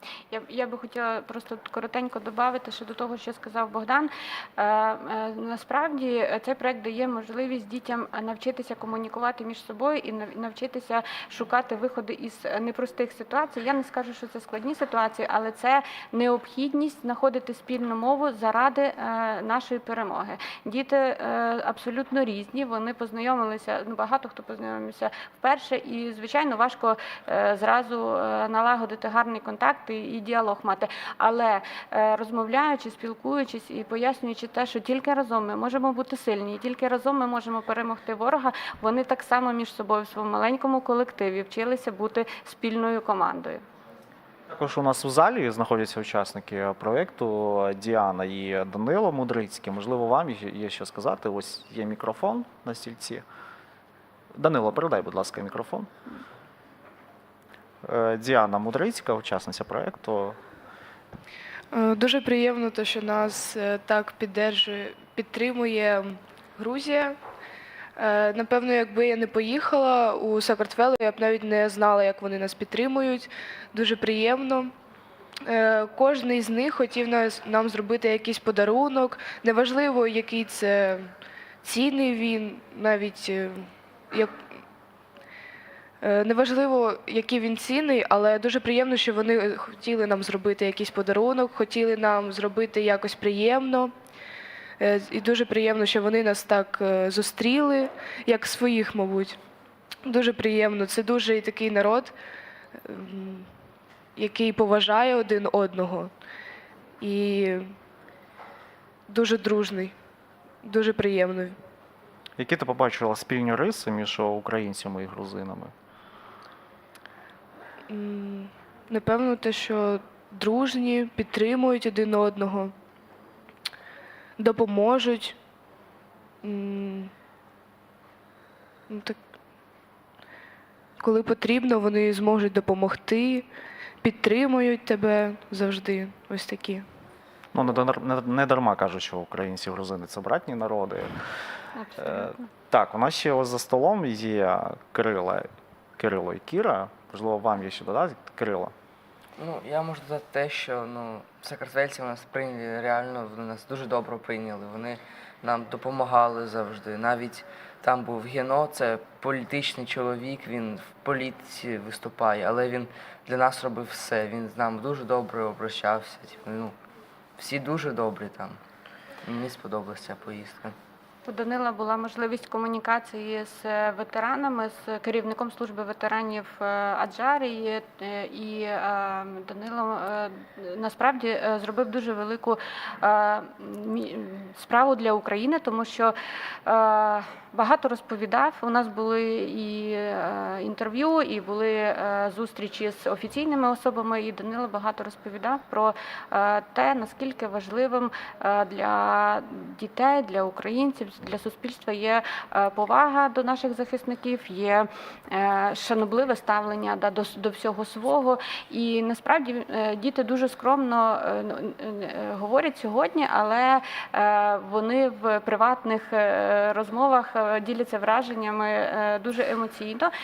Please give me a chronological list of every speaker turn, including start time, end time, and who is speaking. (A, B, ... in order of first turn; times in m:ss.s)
0:00.3-0:43.6 A
0:44.5-0:53.2 B
0:54.4-0:55.9 B
0:57.8-1:00.4 B
1:01.7-1:07.2 C
1:08.0-1:14.7 C
1:15.5-1:21.1 C
1:21.6-1:24.4 C
1:26.0-1:33.9 C
1:34.8-1:39.4 C
1:40.1-1:42.1 C
1:42.8-1:43.5 C
1:44.2-1:46.1 C
1:47.0-1:47.8 C
1:49.1-1:49.9 C
1:50.6-1:51.6 C
1:52.4-1:55.7 B
1:57.9-2:02.7 C
2:04.4-2:05.4 C
2:06.4-2:07.1 C
2:08.9-2:09.2 C
2:11.0-2:13.5 C
2:14.0-2:16.9 C
2:17.5-2:21.2 B
2:21.8-2:22.5 A
2:22.0-2:28.7 B
2:29.4-2:46.8 D
2:47.4-2:48.6 D
2:49.2-2:50.8 D
2:51.3-3:06.1 A
3:06.7-3:40.1 A